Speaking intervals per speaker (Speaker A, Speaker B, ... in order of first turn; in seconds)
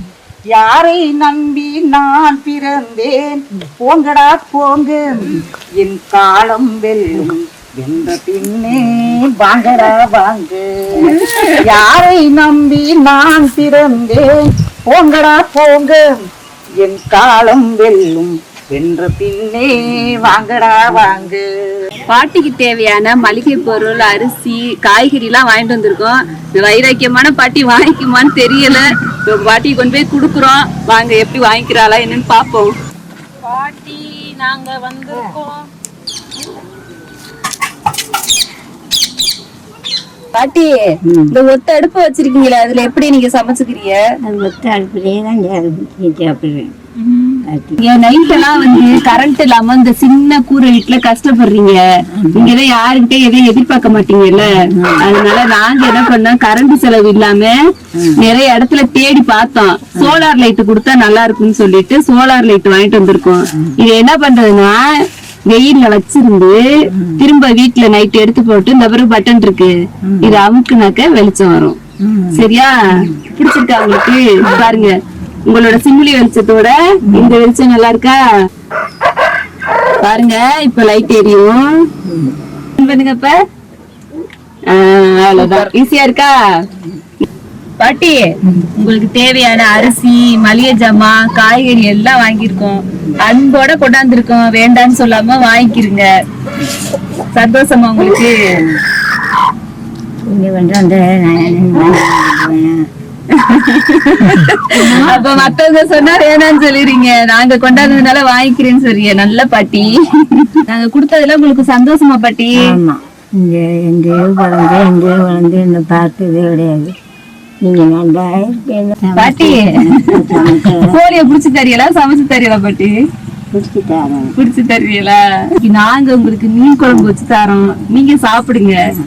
Speaker A: 0.5-14.3, 14.9-16.0, 16.8-21.4
Speaker B: 11.2-11.6, 33.4-35.7, 47.0-47.4, 85.3-85.7
Speaker C: 22.1-32.7, 40.3-40.8, 41.3-44.0, 47.8-51.8, 52.3-57.6, 58.2-64.9, 65.5-66.6, 67.2-71.8, 72.3-75.0, 75.5-78.2, 80.0-81.7, 82.8-83.4, 84.7-86.3, 87.8-96.1, 97.3-98.6, 103.3-112.8, 119.2-122.9, 124.4-128.8
Speaker D: 41.1-41.3, 44.2-46.7, 47.5-47.8, 52.1-52.5, 54.7-55.0, 58.0-58.2, 60.0-60.2, 66.9-67.2, 70.0-70.4, 72.0-72.4, 74.5-74.9, 77.1-77.4, 82.1-82.4, 100.3-102.9, 104.2-105.5, 112.6-117.0, 117.7-121.0, 123.5-124.4